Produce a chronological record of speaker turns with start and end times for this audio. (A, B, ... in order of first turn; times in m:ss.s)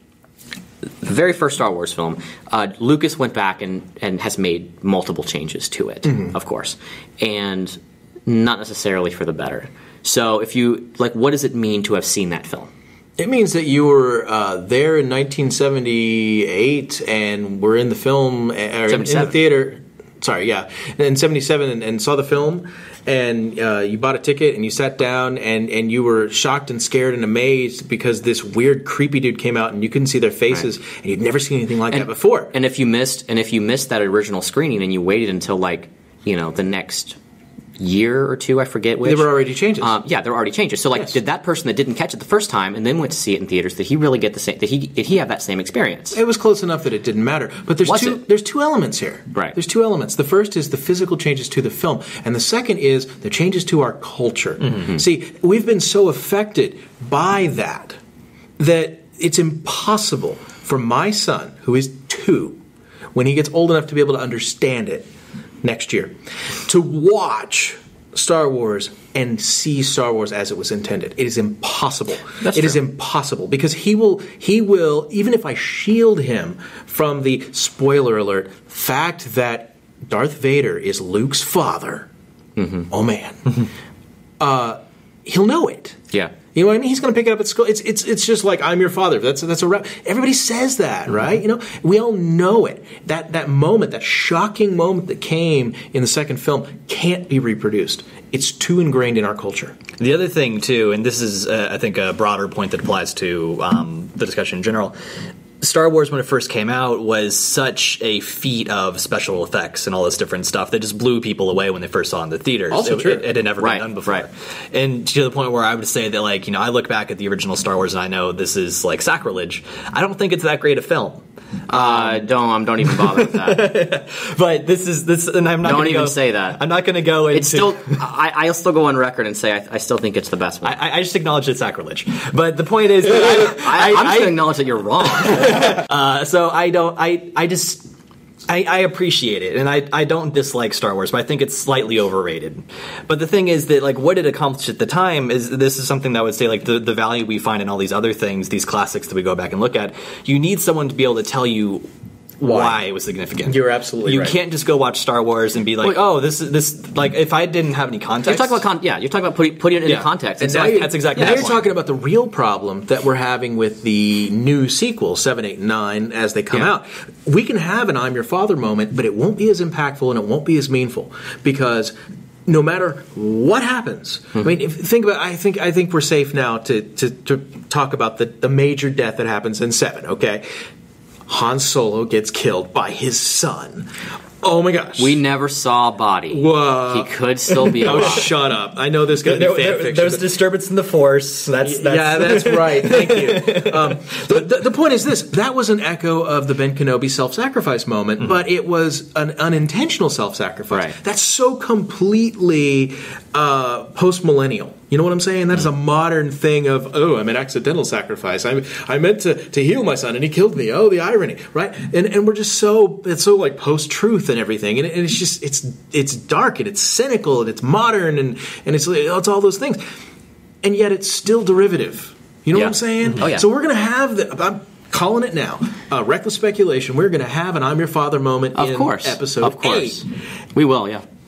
0:01.0-0:12.7 A
0:06.0-0:06.3 B
0:13.2-0:32.5 B
0:18.9-0:19.4 A
0:31.9-0:37.2 A
0:37.8-0:46.2 A
0:39.0-0:40.0 B
0:46.1-0:58.0 B
0:47.8-0:48.2 A
0:54.7-0:55.0 A
0:58.6-1:02.6 B
1:03.1-1:05.1 B
1:05.6-1:22.1 B
1:12.4-1:12.8 A
1:22.6-1:22.9 A
1:22.9-1:23.5 B
1:24.4-1:26.0 B
1:26.5-1:39.8 B
1:40.0-1:44.9 C
1:45.6-2:02.3 C
1:52.7-1:53.2 B
1:53.6-1:54.2 A
2:01.7-2:03.7 A
2:02.8-2:08.0 C
2:05.6-2:06.6 A
2:07.3-2:10.7 A
2:10.6-2:14.5 C
2:13.0-2:15.8 A
2:15.2-2:17.8 C
2:18.5-2:31.9 C
2:32.4-2:32.8 B
2:32.4-2:38.6 C
2:33.4-2:34.4 B
2:38.2-2:41.4 A
2:39.8-2:41.7 C
2:40.4-3:00.6 B
3:01.3-3:05.2 B
3:05.0-3:08.3 A
3:06.3-3:10.3 B
3:07.8-3:08.2 C
3:09.2-3:14.4 C
3:11.6-3:39.8 B
3:20.7-3:21.0 A
3:40.6-3:50.0 B
3:42.5-3:43.4 A
3:48.5-3:51.0 A